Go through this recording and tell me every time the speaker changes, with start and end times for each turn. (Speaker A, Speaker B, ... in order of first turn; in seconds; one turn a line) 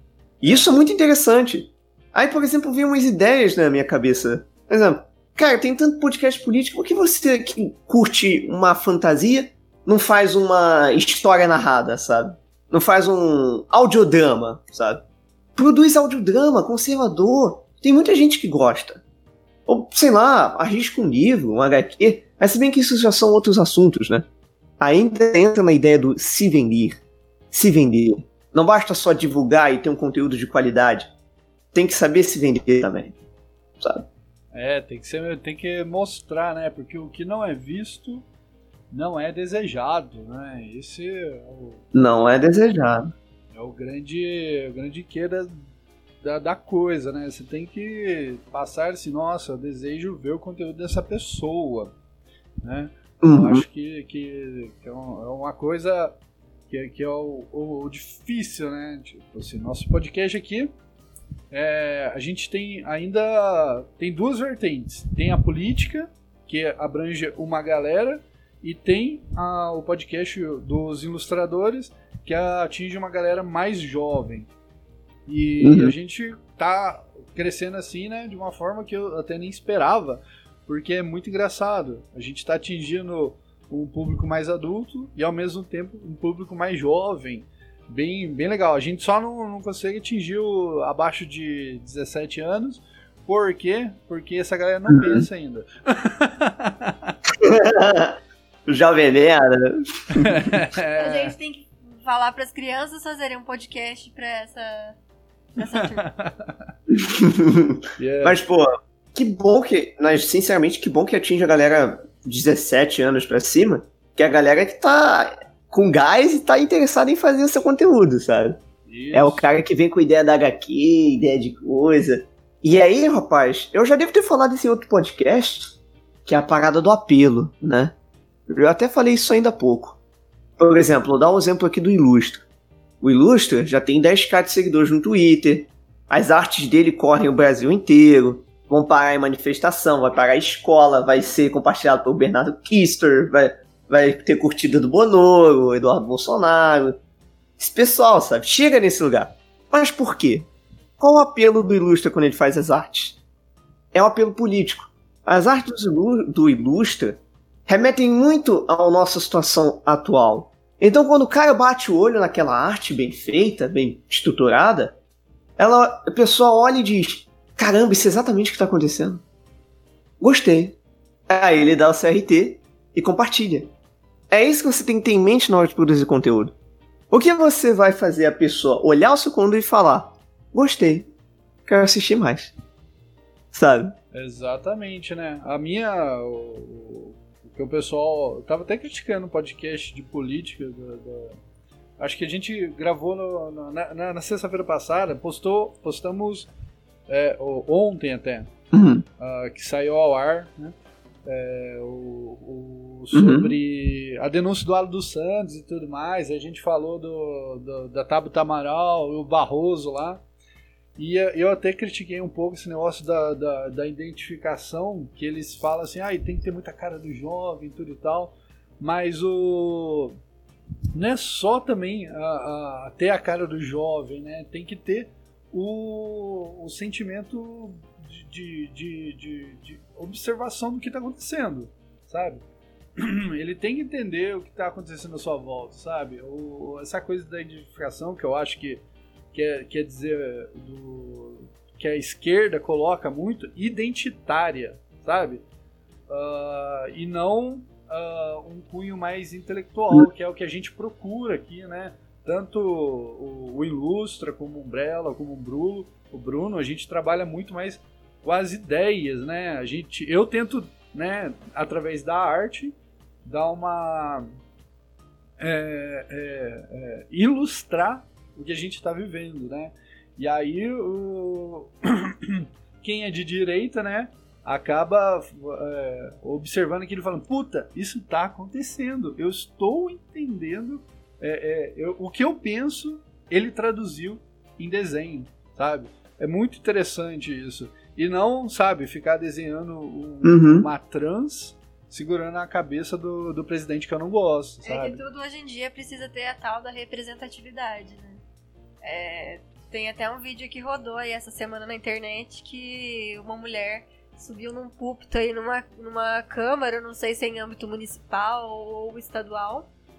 Speaker A: 0.4-15.0
Speaker B: 0.4-0.7
Speaker A: 15.6-19.0
Speaker A: 19.7-24.3
Speaker A: 24.8-27.0
Speaker A: 27.5-31.1
Speaker A: 31.7-33.2
Speaker A: 33.8-34.0
Speaker B: 34.5-38.2
Speaker B: 38.9-41.9
Speaker A: 41.9-43.1
Speaker B: 43.5-45.6
Speaker B: 46.2-51.9
Speaker B: 52.6-56.1
Speaker A: 53.2-53.6
Speaker B: 56.7-60.7
Speaker B: 61.5-74.5
Speaker B: 75.3-97.2
Speaker A: 75.6-75.9
Speaker A: 94.9-95.2
Speaker A: 97.4-100.4
Speaker B: 100.2-101.3
Speaker C: 101.0-105.0
Speaker C: 105.6-106.1
Speaker B: 105.6-106.7
Speaker A: 106.9-118.6
Speaker B: 108.0-108.4
Speaker B: 118.9-119.5
Speaker A: 119.1-127.9
Speaker A: 128.5-130.0
Speaker A: 130.6-132.4
Speaker A: 133.0-147.0
Speaker A: 147.6-150.5
Speaker A: 151.0-153.2
Speaker A: 153.9-164.9
Speaker A: 165.6-169.2
Speaker A: 170.2-170.8
Speaker A: 171.3-173.7
Speaker A: 174.3-176.5
Speaker A: 177.1-181.1
Speaker A: 181.7-182.5
Speaker A: 183.5-183.9
Speaker B: 184.1-191.4
Speaker B: 192.0-196.5
Speaker B: 197.1-198.5
Speaker A: 198.7-199.1
Speaker B: 199.2-200.7
Speaker B: 201.3-210.2
Speaker A: 203.1-203.5
Speaker B: 211.0-220.2
Speaker B: 220.9-232.4
Speaker B: 233.0-238.8
Speaker B: 239.3-245.4
Speaker B: 246.1-264.3
Speaker B: 265.4-295.0
Speaker A: 290.2-290.7
Speaker C: 294.6-298.2
Speaker C: 298.8-309.7